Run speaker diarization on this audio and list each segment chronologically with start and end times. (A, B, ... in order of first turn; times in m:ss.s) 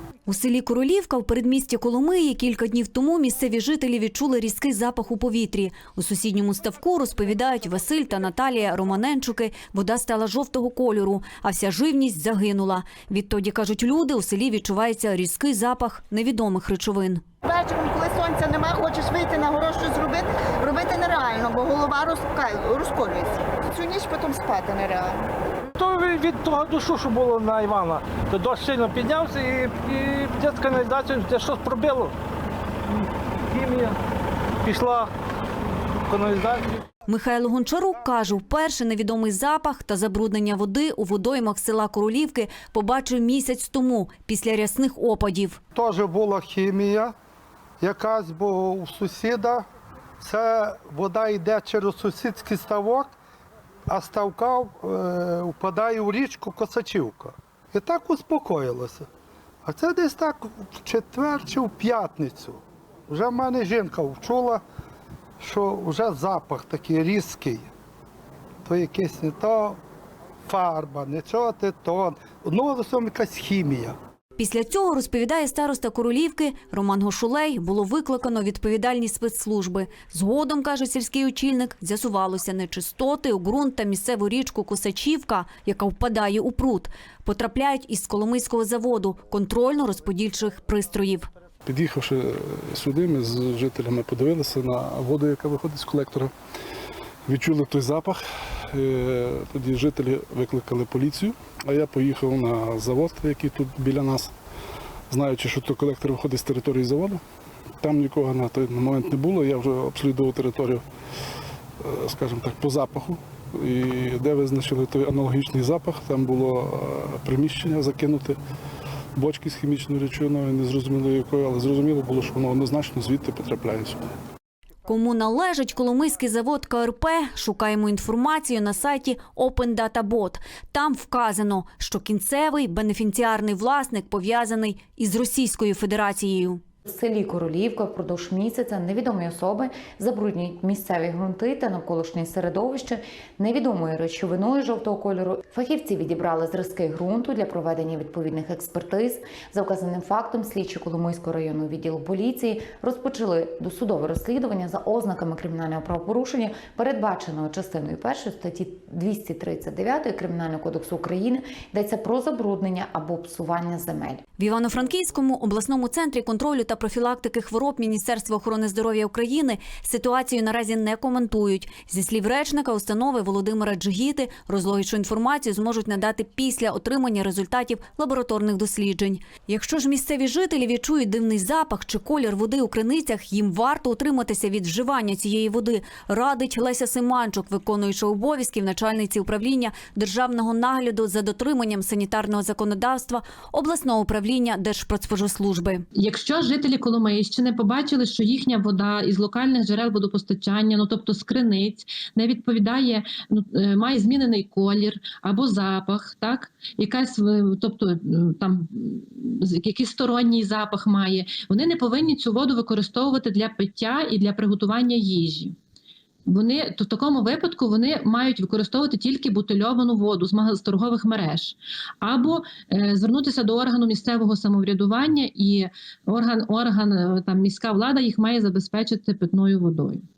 0:00.3-0:17.3 A
0:17.4-0:25.3 B
0:25.8-0:32.1 C
0:33.5-0:34.0 C
0:34.6-0:35.1 C
0:36.1-0:36.8 C
0:37.1-0:45.6 A
0:45.8-0:47.1 D
0:47.8-0:49.7 D
0:50.2-0:53.1 D
0:53.9-0:59.1 D
0:59.6-1:04.6 D
1:05.4-1:07.7 D
1:08.7-1:09.8 D
1:10.5-1:14.0 D
1:14.4-1:31.3 A
1:31.7-1:36.3 E
1:37.3-1:38.2 E
1:38.7-1:44.3 E
1:45.1-1:47.2 E
1:47.8-1:50.8 E
1:51.8-1:58.4 E
1:59.2-2:04.0 E
2:04.9-2:16.6 A
2:16.9-2:44.2 F
2:44.4-3:15.8 A
3:16.0-3:35.6 G
3:36.3-3:50.0 G